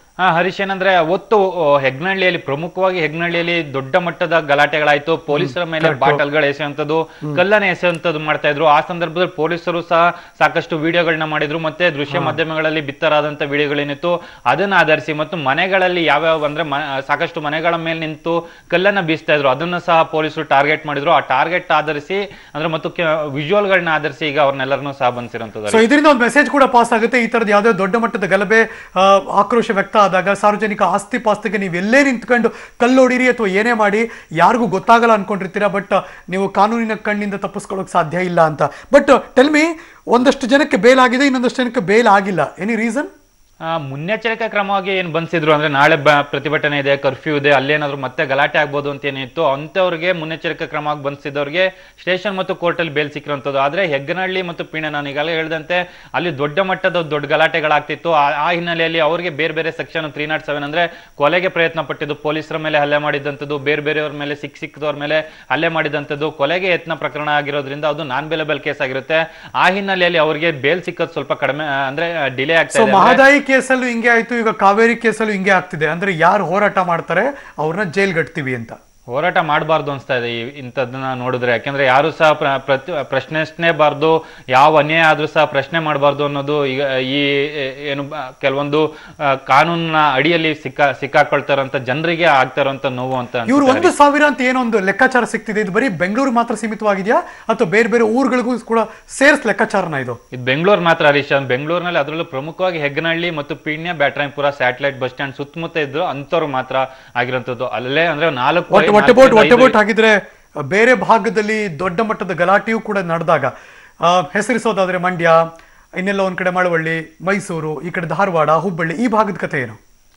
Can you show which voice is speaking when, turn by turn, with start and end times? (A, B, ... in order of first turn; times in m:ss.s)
0:00.2-0:25.8 A
0:05.3-0:06.2 B
0:12.1-0:12.4 B
0:25.7-0:43.1 B
0:43.7-1:13.2 A
1:12.7-1:18.8 B
1:19.1-1:33.9 A
1:33.5-1:40.2 B
1:40.3-1:49.8 A
1:48.7-1:50.2 B
1:50.7-1:53.5 B
1:54.0-1:55.4 B
1:56.0-1:59.8 B